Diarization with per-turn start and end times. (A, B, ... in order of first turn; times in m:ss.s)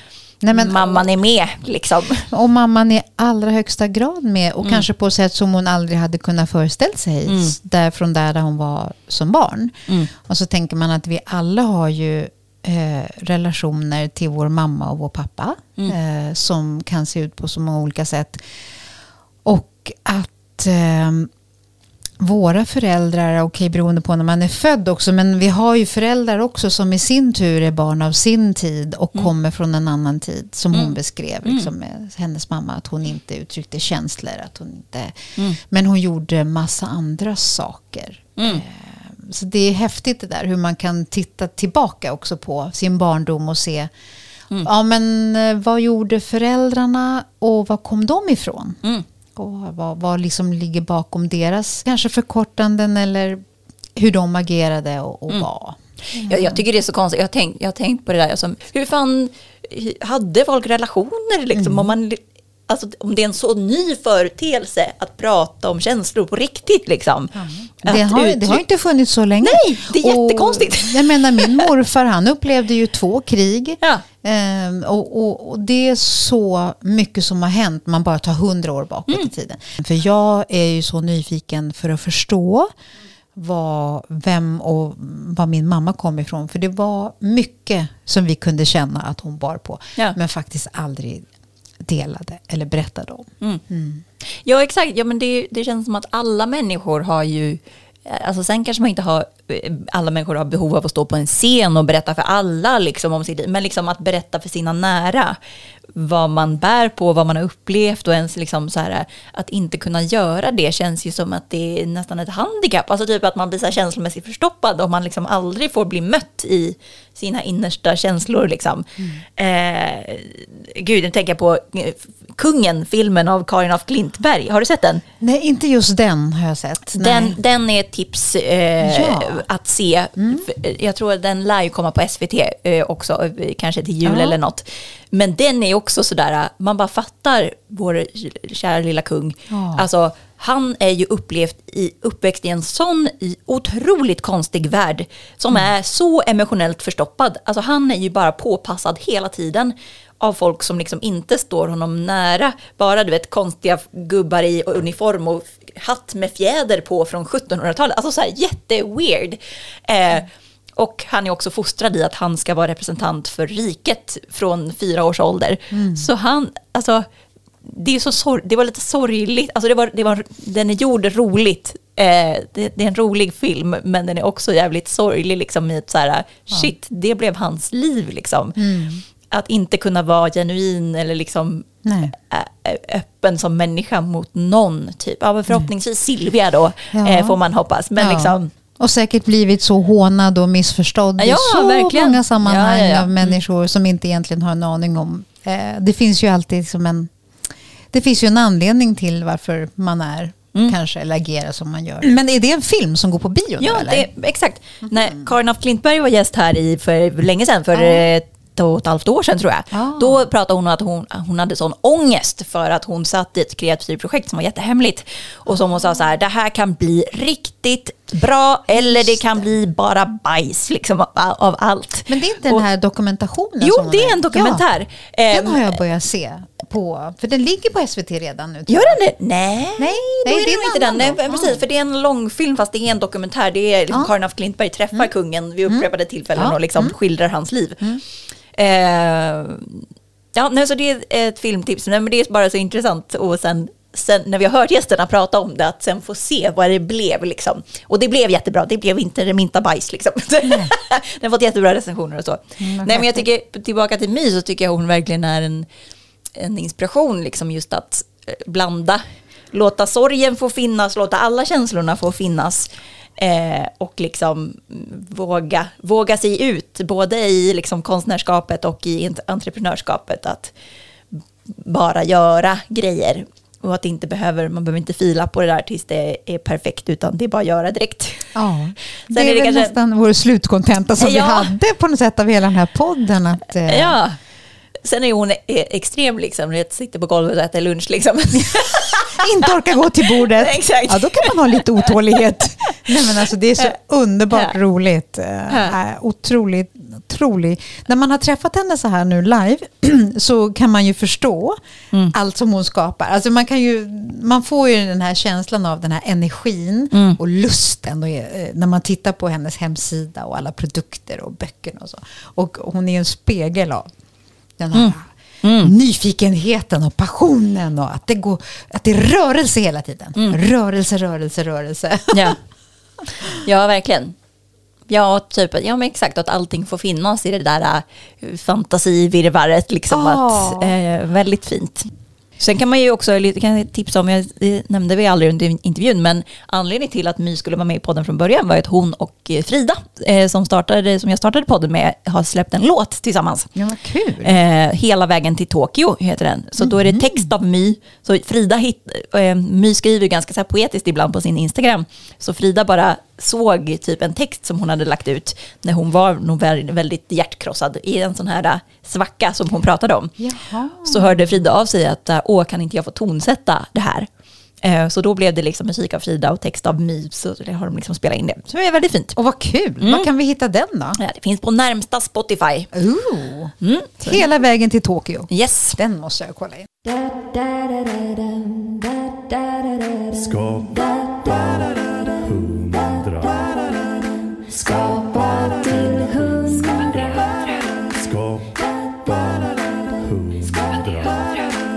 0:00.4-0:01.1 A
0:00.5-0:02.3 B
0:02.3-0:18.4 A
0:07.3-0:07.6 B
0:19.4-0:21.3 A
0:22.2-0:43.9 A
0:30.7-0:31.7 B
0:38.4-0:38.6 B
0:44.6-0:48.8 A
0:49.4-0:56.6 A
0:56.1-1:08.6 B
1:01.6-1:01.9 A
1:07.4-1:22.7 A
1:09.4-1:11.7 B
1:23.4-1:31.3 A
1:31.8-1:34.0 A
1:34.4-1:45.4 B
1:46.0-2:05.0 B
2:05.2-2:07.4 A
2:07.0-2:47.1 B
2:08.8-2:09.4 A
2:14.0-2:14.4 A
2:19.5-2:19.9 A
2:45.7-2:46.1 A
2:47.6-3:08.5 B
2:58.6-2:59.0 A
3:01.8-3:02.1 A
3:06.9-3:07.4 A
3:08.0-3:17.1 A
3:11.2-3:13.4 B
3:17.9-3:24.1 A
3:23.6-3:42.6 B
3:27.7-3:28.1 A
3:29.7-3:30.3 A
3:38.8-3:39.5 A
3:42.1-3:44.6 A
3:43.6-3:45.8 B
3:45.3-3:49.0 A
3:48.7-3:58.0 B
3:49.8-3:51.6 A
3:55.7-3:57.0 A
3:58.6-4:15.7 B
4:12.6-4:13.2 A
4:16.4-4:30.5 B
4:31.1-4:38.4 B
4:38.4-4:44.0 A
4:39.1-4:39.8 B
4:41.0-4:41.5 B
4:43.7-4:44.2 B
4:44.8-4:53.7 B
4:49.1-5:01.6 A
4:55.5-4:55.8 B
5:02.1-5:13.9 A
5:06.9-5:07.2 B
5:14.6-5:22.4 A
5:14.7-5:15.7 B
5:22.1-5:22.4 B
5:23.4-5:24.1 B
5:24.9-5:43.5 B
5:29.9-5:30.8 A
5:43.6-5:44.4 A
5:44.2-6:00.2 B
5:46.6-5:47.0 A
6:00.2-6:01.3 A
6:00.8-6:04.1 B
6:04.6-6:09.2 B
6:09.2-6:11.0 A
6:09.8-6:10.1 B
6:11.0-6:12.7 B
6:12.7-6:16.7 A
6:13.6-6:14.2 B
6:15.3-6:15.8 B
6:20.1-6:23.7 C
6:24.5-6:31.5 C